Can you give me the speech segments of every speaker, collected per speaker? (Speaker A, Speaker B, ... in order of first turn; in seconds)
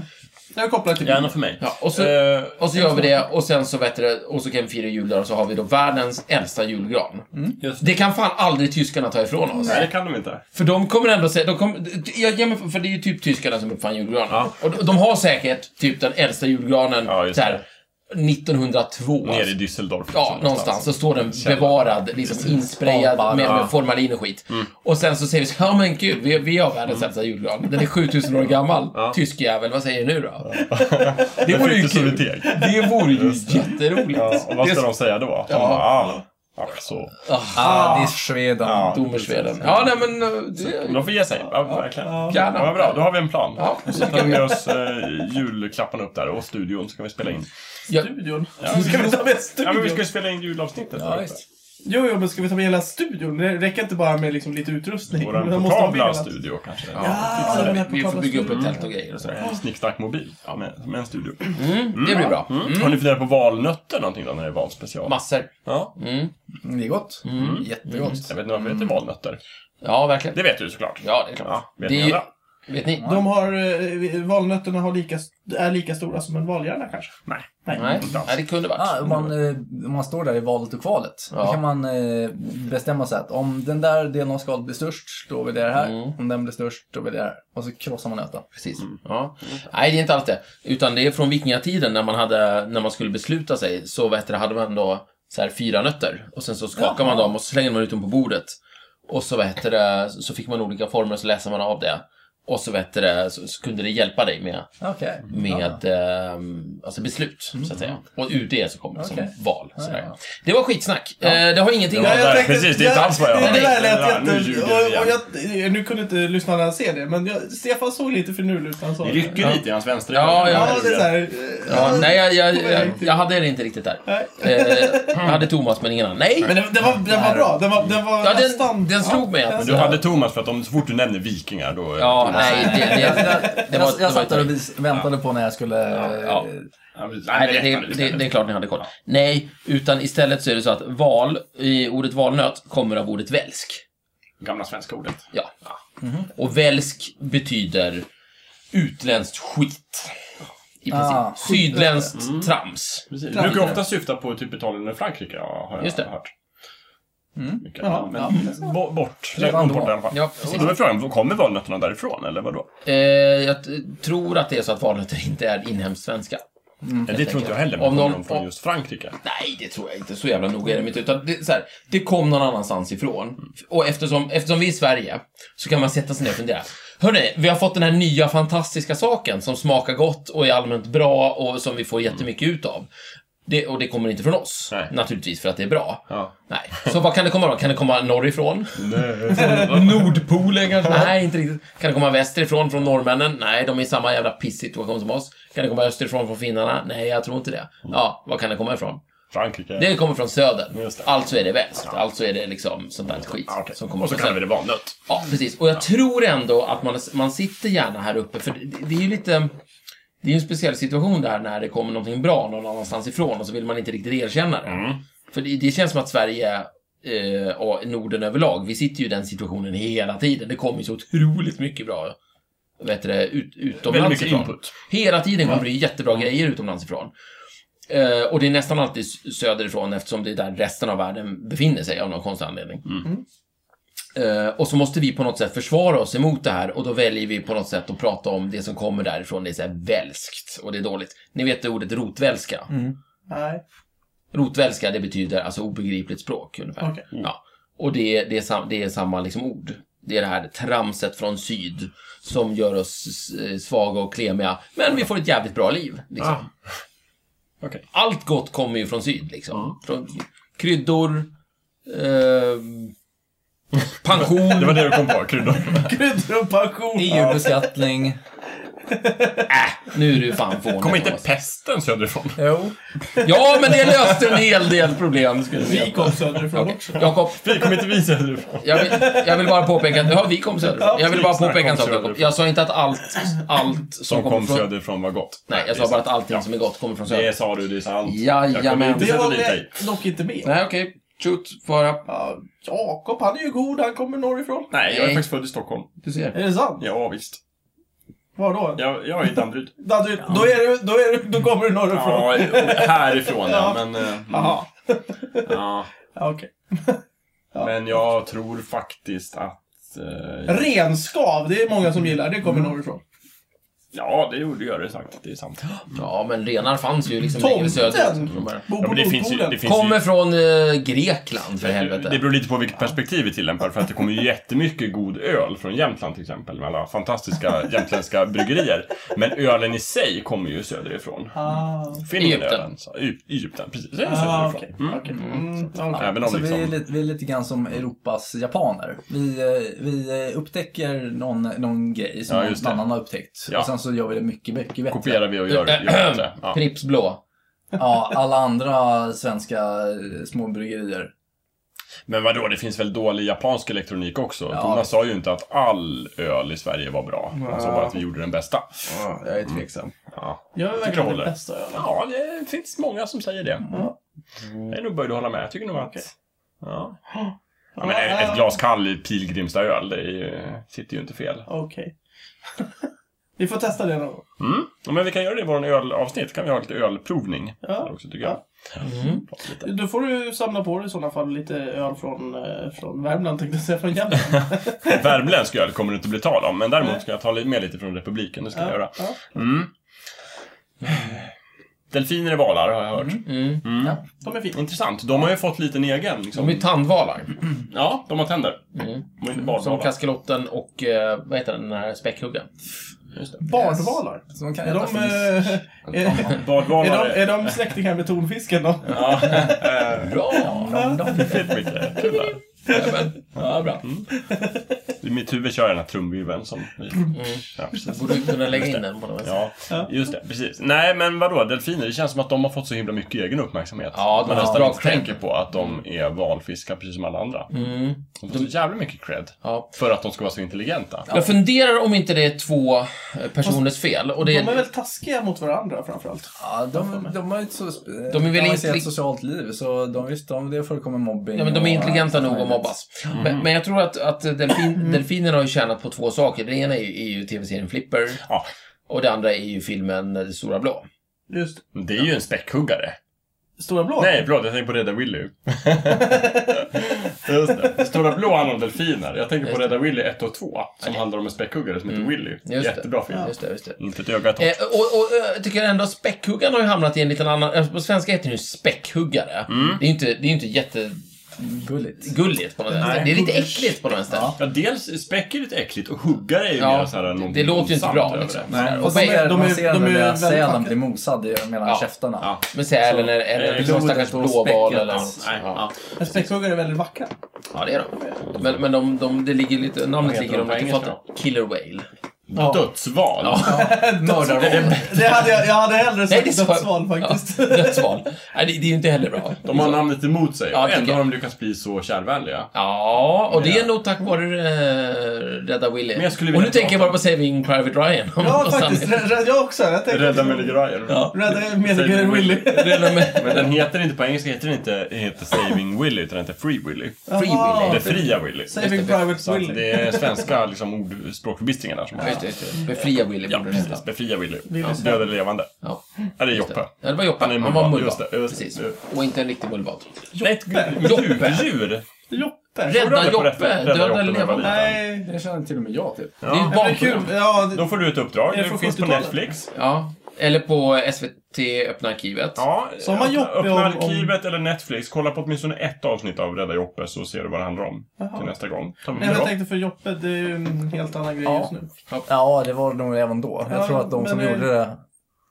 Speaker A: 0.5-1.3, 35.5-36.2, 37.6-38.2, 42.0-42.7, 43.9-44.6, 48.0-50.1, 51.8-56.3, 57.0-58.8, 73.0-78.1, 111.9-119.5, 120.4-123.2, 124.1-125.3, 126.4-130.0, 133.0-133.5, 153.3-153.8, 157.8-158.2, 243.3-243.6, 265.7-267.7, 268.9-269.5, 275.6-277.2, 278.8-279.6, 280.8-281.2, 289.0-290.5, 292.1-294.7, 296.3-296.9, 298.4-298.8, 299.8-305.6, 306.1-307.0, 310.5-313.0, 317.4-319.6, 331.3-332.1, 334.0-336.2, 357.3-358.0, 358.9-359.9, 360.6-361.9, 365.8-366.0, 367.1-368.6, 371.5-371.9, 373.4-374.2, 377.6-378.4, 379.6-385.1, 388.6-389.2, 394.2-394.6, 403.4-409.7, 410.7-411.4, 412.0-413.1, 414.1-414.6, 434.2-437.1, 451.3-451.6, 453.6-454.2, 456.0-456.7, 472.8-473.8, 478.8-480.8, 486.0-487.1, 492.4-492.6, 493.4-498.0, 508.2-513.5, 517.1-520.3, 522.0-522.6, 524.5-525.1, 530.1-530.9, 532.1-532.9, 534.4-535.1, 536.5-539.2, 542.8-544.1, 548.0-548.3, 548.9-551.7, 553.5-554.5
Speaker B: 1.0-2.6, 7.6-7.9, 9.6-10.4, 17.1-17.6, 19.2-21.9, 23.4-23.7, 30.5-37.1, 38.6-40.0, 40.5-47.5, 48.6-51.4, 55.1-57.8, 58.5-65.2, 65.7-65.9, 67.4-69.4, 70.3-72.3, 77.3-78.3, 111.9-115.2, 119.0-122.1, 129.6-133.1, 136.9-138.3, 144.4-145.2, 152.2-152.5, 153.1-156.3, 157.6-162.7, 167.1-169.2, 188.8-190.2, 190.8-191.1, 199.3-199.9, 200.7-201.1, 203.5-205.0, 214.7-215.0, 223.8-224.7, 256.2-256.5, 264.1-265.9, 270.7-272.4, 277.0-279.2, 281.0-282.3, 284.1-286.4, 287.1-289.8, 294.7-295.9, 296.8-297.4, 298.8-299.7, 301.9-304.6, 305.4-305.9, 307.6-310.7, 313.9-316.0, 318.7-320.0, 321.6-331.4, 332.0-335.2, 335.9-336.7, 342.3-342.9, 344.9-346.6, 352.1-358.9, 359.5-363.7, 364.7-366.1, 366.6-367.0, 367.8-371.5, 374.4-379.7, 384.4-389.7, 390.8-391.3, 391.9-394.0, 394.5-396.7, 397.7-398.6, 399.2-399.9, 403.1-403.4, 405.9-407.6, 408.9-410.3, 411.1-412.4, 413.8-414.1, 415.0-427.5, 428.2-431.2, 443.1-443.5, 448.2-448.5, 451.8-453.0, 454.0-464.6, 469.5-469.8, 474.4-478.9, 482.2-483.9, 484.9-485.8, 490.0-491.0, 492.3-493.7, 494.4-495.0, 499.4-502.5, 503.3-503.7, 505.9-507.0, 509.9-512.5, 513.1-517.0, 517.6-522.2, 523.3-525.5, 526.2-528.8, 530.2-531.9, 532.7-534.8, 536.2-539.5, 542.4-549.3
Speaker C: 1.6-7.3, 7.8-9.9, 10.5-19.5, 20.1-30.8, 31.3-34.6, 35.5-35.8, 37.2-38.1, 38.7-44.5, 48.7-49.0, 56.9-59.5, 61.6-63.0, 65.1-66.3, 67.2-68.2, 69.8-70.4, 71.0-73.2, 77.7-79.3, 81.3-81.6, 85.8-86.2, 88.5-98.6, 99.1-104.7, 105.3-113.8, 119.4-121.0, 121.7-126.5, 128.2-130.0, 132.0-134.5, 136.0-136.5, 137.3-143.8, 145.3-145.8, 146.3-148.1, 148.7-150.1, 150.8-153.6, 155.8-156.1, 160.1-160.8, 162.8-166.4, 167.1-168.4, 169.2-182.9, 183.5-199.0, 199.8-204.4, 205.1-209.6, 210.2-222.2, 222.8-227.1, 227.9-232.9, 234.2-242.7, 244.3-256.5, 257.9-261.3, 261.9-262.9, 264.0-265.1, 269.5-271.2, 273.2-277.7, 278.6-284.7, 285.5-287.3, 288.1-289.3, 290.4-292.1, 294.9-295.2, 296.0-296.4, 315.9-318.6, 319.6-322.2, 332.2-332.6, 345.5-347.2, 378.8-379.2, 393.2-393.7, 396.4-397.4, 398.8-402.5, 409.9-410.8, 412.7-413.8, 417.1-419.4, 423.9-425.2, 427.5-428.5, 429.4-429.7, 431.1-434.6, 438.1-438.9, 441.4-448.2, 448.9-450.9, 459.4-459.7, 461.9-463.8, 464.4-471.0, 472.0-474.4, 476.6-479.3, 482.5-485.7, 487.5-491.9, 493.2-495.2, 496.1-499.9, 500.5-501.0, 502.5-509.1, 510.9-511.2, 512.2-513.5, 517.1-519.1, 522.0-523.8, 525.6-530.0, 530.7-531.5, 532.6-534.8, 536.3-537.1, 539.5-542.4
Speaker D: 22.4-23.7, 37.5-39.3, 51.0-51.4, 66.6-68.9, 78.8-88.5, 96.8-97.3, 104.8-105.8, 109.0-110.2, 126.9-127.6, 132.3-136.7, 146.0-146.3, 150.9-152.1, 157.4-158.7, 159.3-160.0, 166.8-167.1, 242.7-243.0, 266.9-268.2, 272.4-272.8, 335.9-345.2, 347.8-351.1, 354.5-354.9, 403.5-406.3, 410.4-411.7, 436.4-442.7, 471.4-472.1, 474.1-474.4, 478.5-482.3, 482.9-485.2, 493.4-494.9, 535.0-536.2, 551.2-551.5, 552.1-554.8